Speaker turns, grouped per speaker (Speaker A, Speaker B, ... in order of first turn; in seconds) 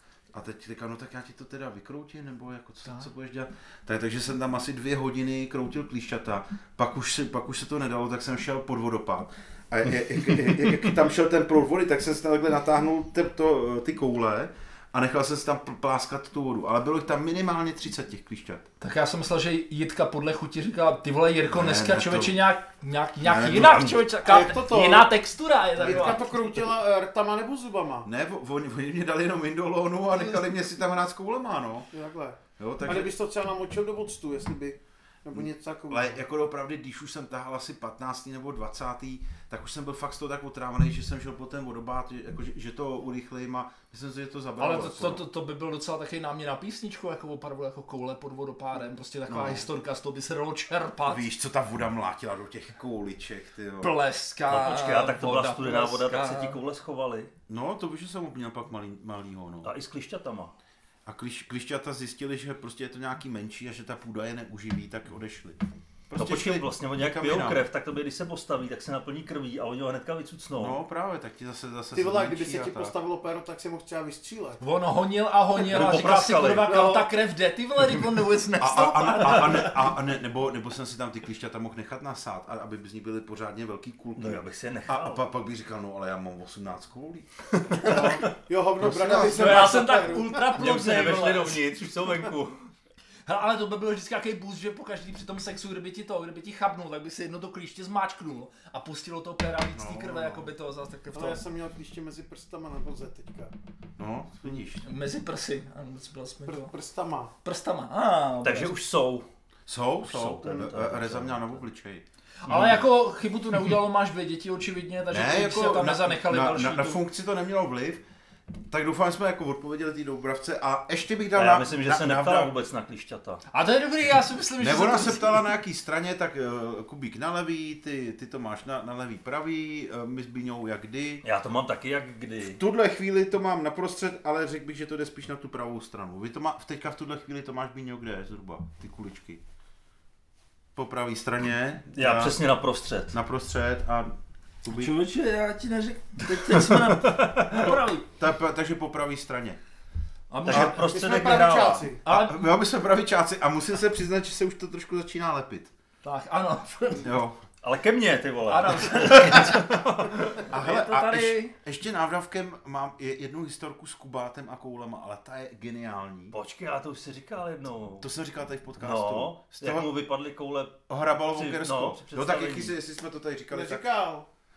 Speaker A: 0.3-18.6, 21.5-22.4, 23.2-24.0, 25.8-26.2, 28.0-31.9, 32.6-33.1, 35.3-45.2, 49.3-49.7, 51.1-53.9, 57.5-59.7, 61.0-67.6, 70.5-72.9, 78.6-88.2, 88.8-89.9, 99.7-100.5, 104.0-104.8, 109.7-112.0, 115.1-118.0, 118.6-122.5, 124.6-131.2, 132.5-139.4, 140.7-142.4, 143.1-144.9, 148.2-149.6, 152.1-155.7, 157.0-157.4, 160.4-166.3, 168.0-169.9, 170.9-173.8
Speaker B: 18.8-26.7, 44.6-51.2, 53.8-56.6, 74.6-79.9, 87.8-88.1, 89.1-91.6, 93.3-101.5, 104.8-106.7, 107.4-108.7, 112.4-117.0, 123.5-125.4, 144.7-148.1, 150.3-150.8, 152.0-152.4, 156.0-157.1, 158.5-159.7, 160.5-161.5
Speaker C: 24.2-25.1, 25.8-28.1, 31.9-36.2, 71.9-74.6, 76.5-77.1, 87.8-90.5, 101.1-103.5, 106.5-107.3, 110.4-110.7, 150.5-152.0, 173.5-174.3
Speaker D: 54.5-57.3, 59.6-60.5, 66.1-70.8, 75.6-76.7, 84.2-85.2, 90.5-92.6, 108.4-109.3, 110.0-111.6, 112.5-112.8, 121.3-123.4, 131.2-132.6, 141.9-143.2, 146.3-147.7, 150.4-151.9, 157.6-160.4, 166.3-168.1, 168.8-172.7